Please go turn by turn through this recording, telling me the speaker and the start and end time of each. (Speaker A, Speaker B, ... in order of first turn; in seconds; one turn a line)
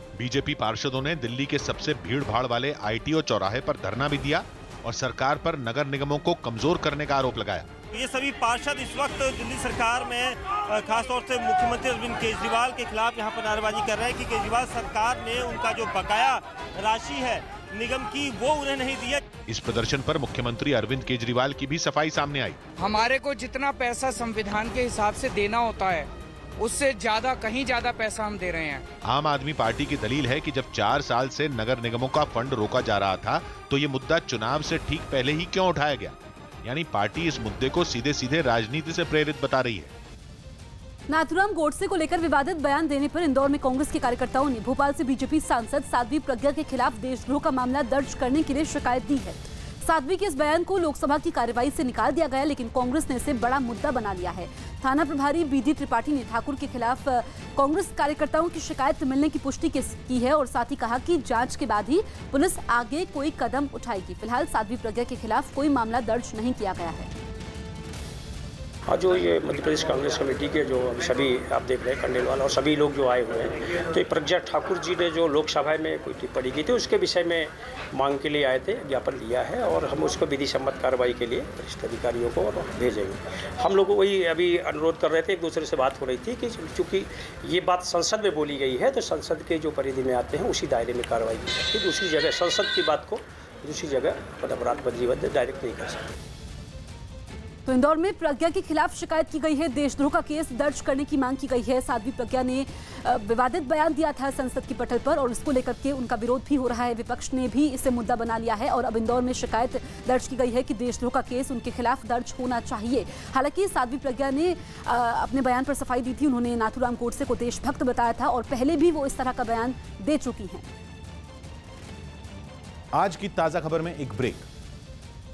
Speaker A: 0.1-7.7
Speaker B: 7.9-19.2
Speaker A: 19.5-22.6
Speaker C: 22.8-28.8
Speaker A: 29.1-39.9
Speaker D: 41.1-67.1
Speaker E: 68.9-96.0
Speaker D: 97.7-120.7
Speaker A: 122.9-124.5